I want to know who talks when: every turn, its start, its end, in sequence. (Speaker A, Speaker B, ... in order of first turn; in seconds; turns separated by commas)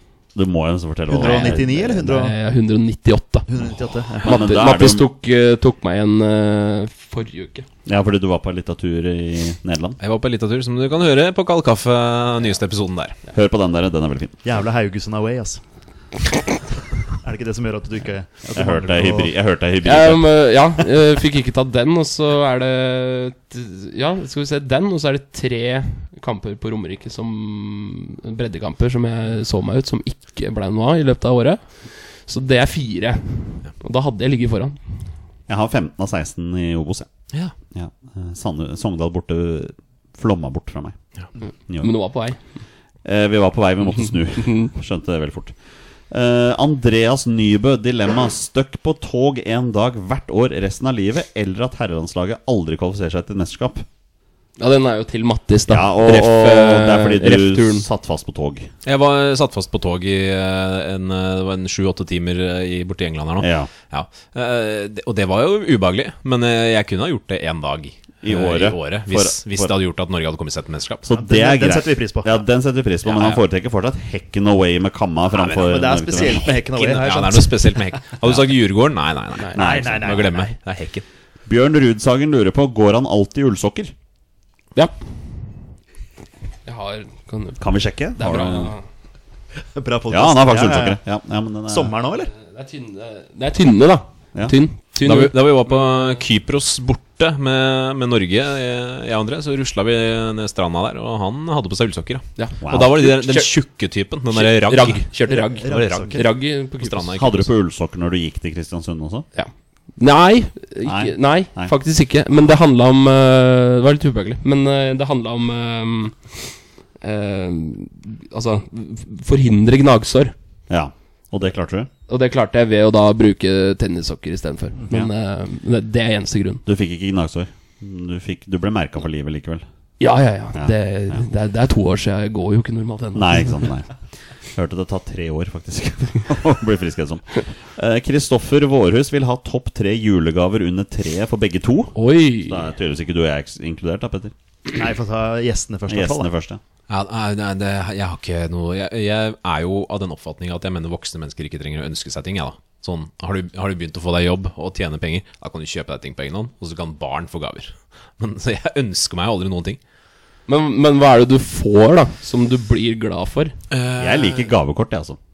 Speaker A: 0.3-1.7, Speaker B: 1.1-2.4, Speaker C: 1.2-3.5, Speaker B: 3.5-4.5, Speaker A: 4.2-5.1, Speaker C: 4.2-7.7, Speaker A: 7.9-10.0, Speaker D: 10.0-13.2, Speaker A: 13.3-14.4, Speaker B: 14.4-15.6, Speaker B: 17.2-19.3, Speaker A: 18.5-20.3, Speaker C: 19.8-34.9, Speaker A: 35.5-37.1, Speaker A: 37.7-41.0, Speaker A: 41.7-41.9, Speaker C: 41.8-42.4, Speaker A: 43.0-45.5, Speaker C: 44.4-44.7, Speaker A: 46.1-53.9, Speaker C: 54.6-57.9, Speaker A: 55.7-58.7, Speaker D: 58.9-71.1, Speaker A: 63.4-63.7, Speaker A: 68.2-69.7, Speaker A: 71.0-76.5, Speaker B: 71.1-72.4, Speaker D: 75.3-81.0, Speaker B: 75.6-77.8, Speaker A: 79.5-80.3, Speaker B: 79.5-80.5, Speaker A: 81.5-83.9, Speaker C: 86.7-87.6, Speaker A: 87.6-88.7, Speaker C: 88.2-88.8, Speaker B: 89.7-91.0, Speaker A: 90.1-91.9, Speaker B: 91.7-92.3, Speaker C: 92.3-95.4, Speaker D: 95.0-105.1, Speaker C: 102.4-103.5, Speaker A: 102.6-103.0, Speaker C: 104.3-107.1, Speaker B: 105.3-106.3, Speaker D: 105.6-107.5, Speaker A: 107.2-109.3, Speaker C: 109.3-120.3, Speaker A: 110.8-111.7, Speaker A: 120.7-121.9, Speaker C: 122.1-126.6, Speaker A: 126.7-129.7, Speaker C: 130.0-133.7, Speaker A: 130.6-131.2, Speaker A: 133.2-133.9, Speaker A: 134.5-144.3, Speaker C: 141.9-142.7, Speaker B: 144.7-146.3, Speaker A: 145.9-146.6, Speaker D: 146.9-159.8, Speaker C: 160.5-163.6, Speaker D: 163.7-164.5, Speaker A: 164.0-165.2